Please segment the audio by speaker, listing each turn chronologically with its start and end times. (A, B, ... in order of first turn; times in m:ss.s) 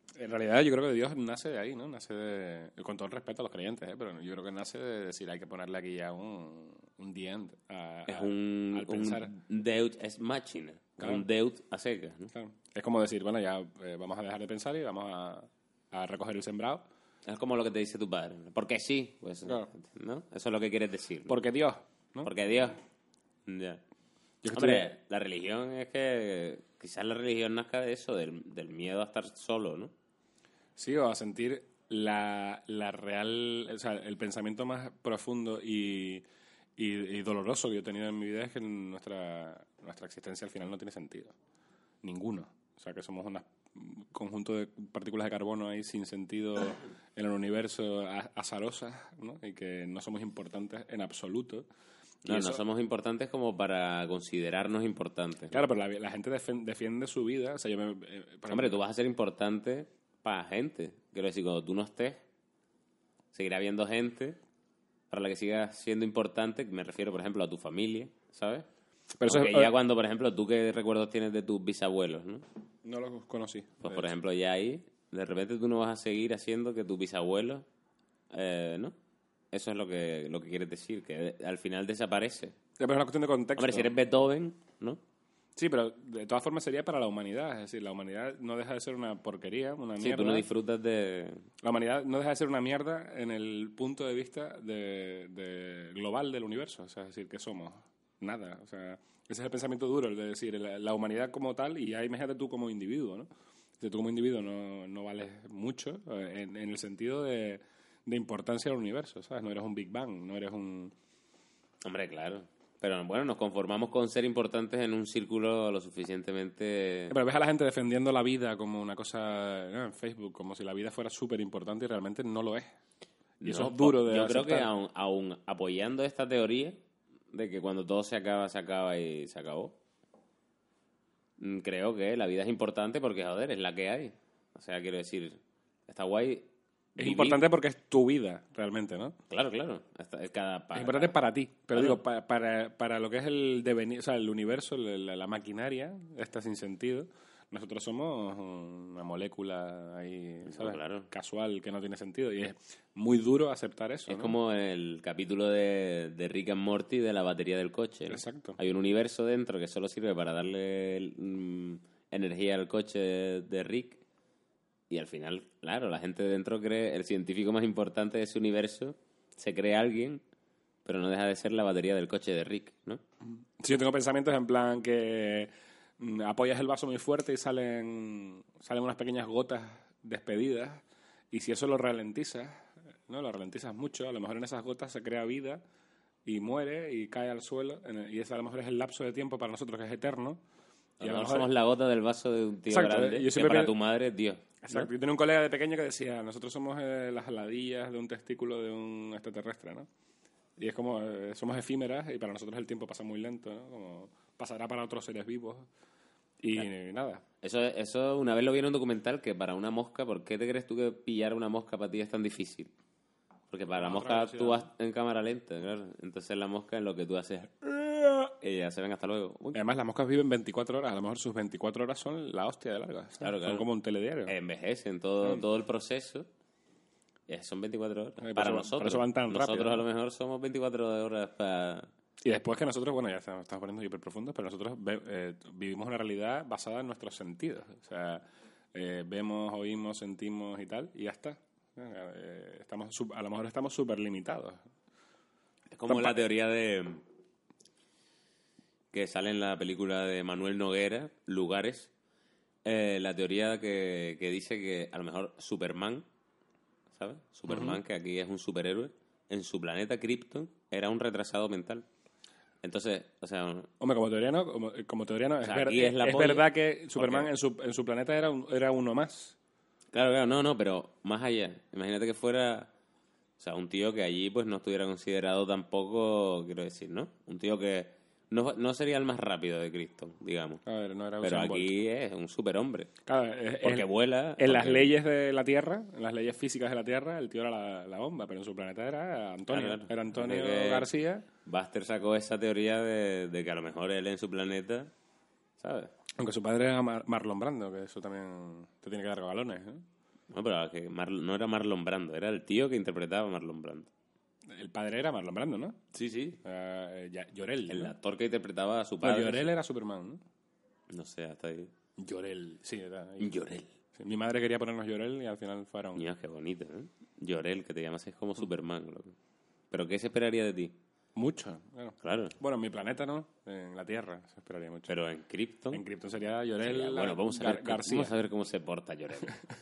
0:00.2-0:09.3 A
0:08.1-0:12.3 B
0:11.0-0:11.3 A
0:12.3-0:16.9 A
0:17.3-0:21.4 B
0:21.3-0:22.3 A
0:22.2-0:22.8 B
0:23.5-0:23.8 B
0:24.4-0:24.9 A
0:24.5-0:29.9 B
0:30.8-0:36.2 A
0:36.8-0:41.3 A
0:42.0-0:51.7 A
0:52.2-0:55.6 B
0:52.3-0:52.6 A
0:55.5-0:58.8 A
0:58.5-1:02.2 B
1:03.3-1:04.4 B
1:05.1-1:08.7 B
1:09.2-1:09.7 A
1:09.2-1:12.4 B
1:12.8-1:14.1 A
1:13.8-1:17.6 B
1:18.3-1:19.0 B
1:19.5-1:22.6 B
1:22.8-1:23.9 A
1:23.6-1:25.0 B
1:25.6-1:30.5 A
1:30.0-1:31.4 B
1:31.6-1:43.3 A
1:43.8-1:50.9 A
1:51.8-1:57.2 B
1:57.1-2:02.7 A
2:03.4-2:06.8 B
2:03.5-2:04.7 A
2:07.3-2:09.8 B
2:11.4-2:17.4 B
2:17.0-2:19.2 A
2:19.3-2:21.1 B
2:20.8-2:34.4 A
2:21.7-2:22.0 B
2:30.5-2:31.1 B
2:34.1-2:44.0 B
2:38.1-2:38.6 A
2:44.9-2:50.2 B
2:50.8-2:53.0 B
2:53.6-3:05.6 A
3:06.2-3:10.4 A
3:11.0-3:14.9 B
3:11.0-3:11.5 A
3:12.7-3:13.7 A
3:14.6-3:19.9 A
3:20.6-3:25.7 A
3:26.4-3:27.2 A
3:27.4-3:32.7 B
3:33.5-3:39.6 B
3:33.8-3:34.7 A
3:39.5-3:44.3 A
3:43.2-3:43.7 B
3:44.3-3:46.3 B
3:47.3-3:51.9 B
3:48.2-3:49.8 A
3:52.2-4:04.6 A
4:05.7-4:07.0 B
4:05.9-4:06.2 A
4:08.9-4:11.9 B
4:12.6-4:16.0 B
4:16.9-4:21.9 B
4:17.5-4:17.8 A
4:22.6-4:23.7 B
4:23.8-4:29.4 A
4:25.4-4:27.3 B
4:29.9-4:32.7 B
4:33.4-4:40.6 B
4:40.6-4:41.7 A
4:41.2-4:42.9 B
4:43.1-4:51.3 A
4:43.6-4:44.9 B
4:49.5-4:50.9 B
4:51.4-4:54.9 B
4:55.6-4:55.9 B
4:56.2-4:59.8 A
5:00.3-5:03.9 B
5:04.5-5:05.8 A
5:05.9-5:06.4 B
5:06.4-5:08.0 A
5:07.7-5:09.5 B
5:09.0-5:10.2 A
5:10.9-5:11.7 B
5:12.0-5:13.3 A
5:13.2-5:13.7 B
5:14.0-5:16.0 A
5:16.0-5:19.2 B
5:19.7-5:20.8 B
5:21.2-5:24.9 A
5:22.0-5:22.4 B
5:24.9-5:25.8 B
5:25.7-5:28.1 A
5:26.6-5:29.4 B